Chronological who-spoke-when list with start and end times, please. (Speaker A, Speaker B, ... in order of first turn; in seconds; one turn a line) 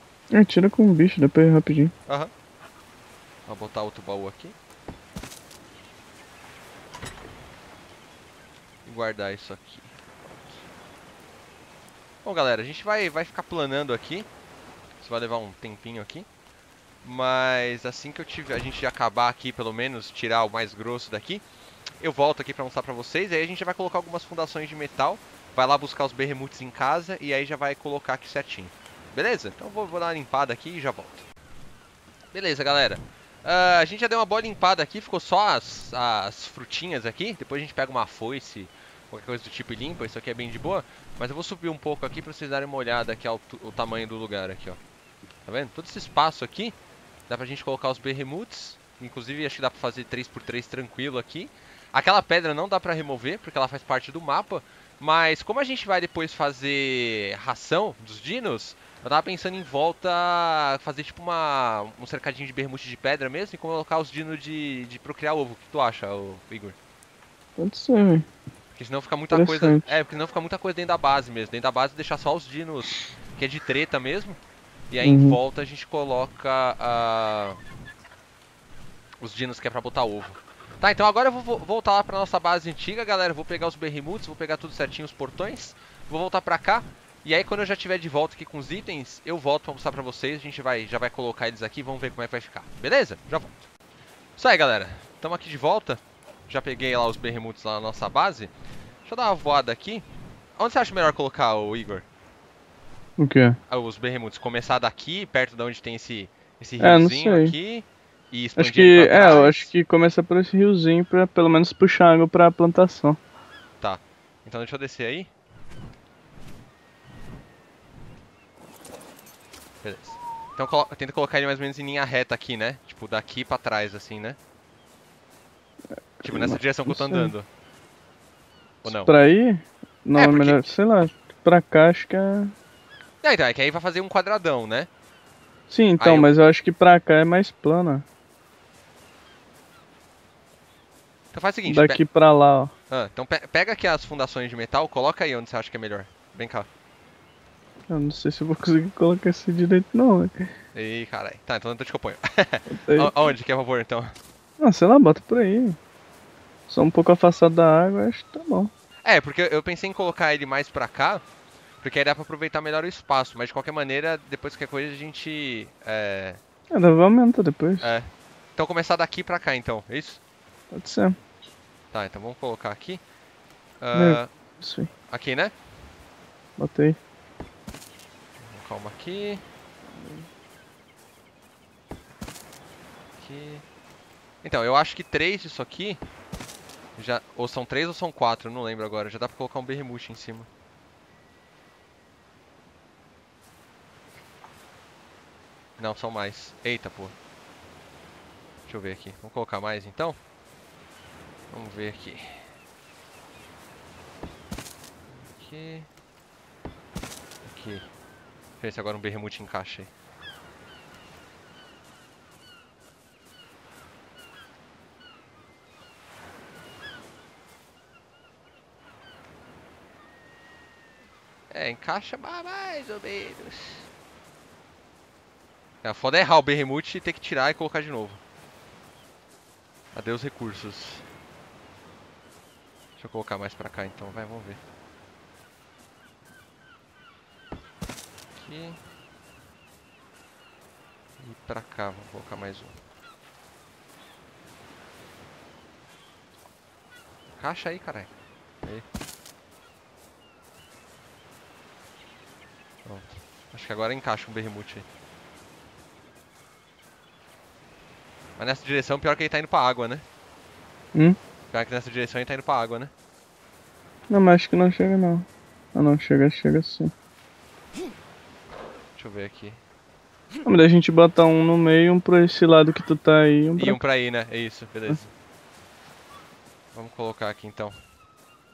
Speaker A: 0.3-1.9
Speaker B: 2.1-2.3
Speaker B: 3.5-4.5
Speaker B: 8.8-10.6
Speaker B: 12.2-14.3
Speaker B: 15.0-16.3
Speaker B: 17.0-21.4
Speaker B: 22.0-31.2
Speaker B: 32.3-44.8
Speaker B: 45.5-46.8
Speaker B: 47.3-66.8
Speaker A: 67.6-68.3
Speaker B: 68.8-74.4
Speaker A: 69.3-69.9
Speaker B: 74.9-77.6
Speaker A: 75.0-75.4
Speaker B: 79.2-93.6
Speaker B: 94.4-98.5
Speaker B: 99.0-100.0
Speaker B: 100.6-102.0
Speaker A: 103.2-103.6
Speaker B: 103.7-109.7
Speaker A: 106.8-107.5
Speaker A: 108.6-113.2
Speaker B: 113.8-115.3
Speaker B: 119.8-124.4
Speaker A: 126.2-127.3
Speaker B: 126.2-127.5
Speaker B: 128.8-129.1
Speaker A: 128.8-132.5
Speaker B: 130.2-130.6
Speaker B: 133.2-134.9
Speaker A: 135.7-138.1
Speaker B: 136.0-136.3
Speaker B: 141.3-142.0
Speaker A: 141.7-142.7
Speaker B: 142.9-146.7
Speaker A: 147.9-150.5
Speaker B: 150.7-154.2
Speaker A: 152.7-153.1
Speaker A: 154.6-155.8
Speaker A: 156.7-158.7
Speaker B: 159.0-161.2
Speaker B: 161.8-166.4
Speaker A: 166.7-167.9
Speaker B: 167.8-170.2
Speaker A: 170.7-171.2
Speaker B: 171.9-173.0
Speaker B: 173.8-174.3
Speaker A: 173.9-174.9
Speaker B: 175.1-175.5
Speaker A: 176.6-177.0
Speaker B: 178.4-179.4
Speaker A: 179.9-180.3
Speaker B: 183.2-183.6
Speaker B: 184.4-186.0
Speaker B: 187.0-190.5
Speaker B: 195.8-197.1
Speaker B: 198.7-200.2
Speaker B: 201.5-202.4
Speaker B: 205.2-205.9
Speaker B: 207.4-207.9
Speaker B: 208.6-209.9
Speaker B: 221.5-223.8
Speaker B: 225.8-228.2
Speaker B: 229.9-231.0
Speaker B: 233.0-234.6
Speaker B: 238.3-238.8
Speaker B: 241.2-242.8
Speaker B: 247.4-248.1
Speaker B: 252.8-254.8
Speaker B: 258.4-260.0
Speaker B: 261.5-262.9
Speaker A: 264.1-266.9
Speaker B: 268.9-269.6
Speaker A: 270.4-273.8
Speaker B: 273.6-275.1
Speaker B: 276.7-277.8